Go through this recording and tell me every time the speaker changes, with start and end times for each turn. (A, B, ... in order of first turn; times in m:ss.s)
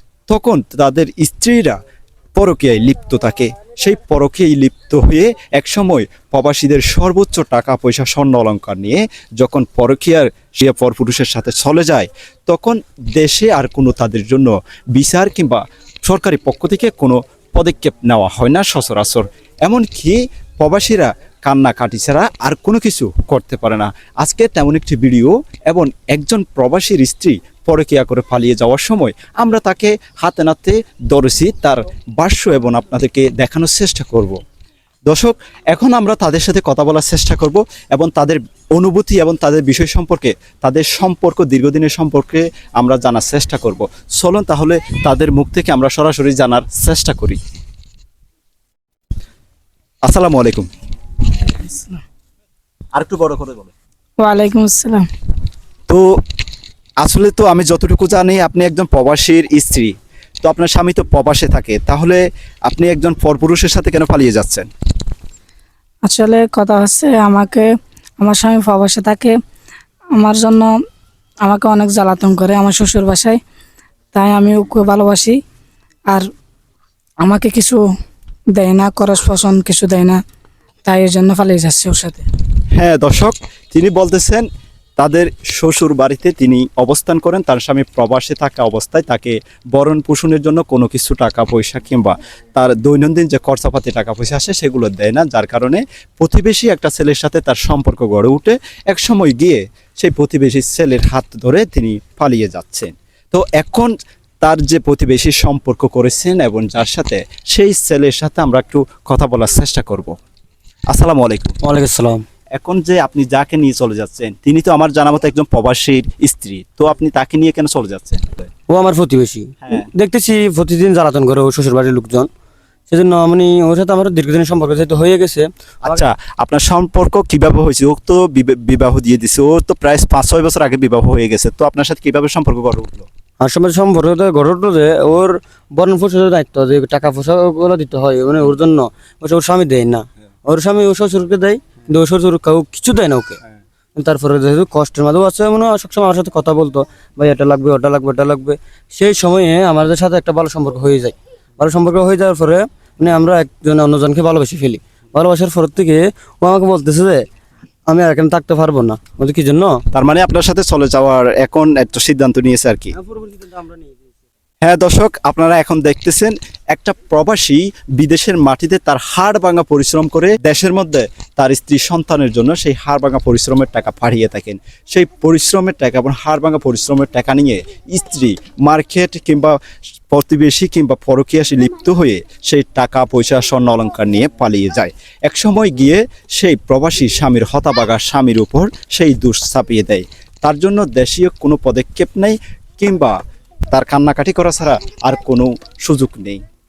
0:00.3-0:01.8 A
0:02.4-0:34.4 A
0:35.1-0:47.4 A
0:50.0-0:50.7 A
0:51.6-0:52.0 B
0:52.9-0:53.7 A
0:54.2-0:55.0 B
0:57.0-1:04.7 A
1:06.0-1:09.4 B
1:10.1-1:10.7 B
1:11.4-1:13.4 B
1:14.1-1:15.4 B
1:17.2-1:17.8 B
1:18.5-1:20.2 B
1:20.8-1:22.2 B
1:22.8-1:24.5 A
1:25.0-1:43.9 A
1:44.4-1:50.2 A
1:50.9-1:51.6 A
1:51.6-1:52.2 C
1:52.6-1:58.5 A
1:58.7-2:02.3 C
2:02.9-2:06.0 C
2:05.8-2:13.1 A
2:13.4-2:23.4 C
2:24.0-2:37.2 C
2:37.9-2:39.8 C
2:39.9-2:42.9 A
2:42.9-2:44.2 C
2:44.6-2:59.6 A
3:00.1-3:13.2 A
3:13.7-3:16.4 A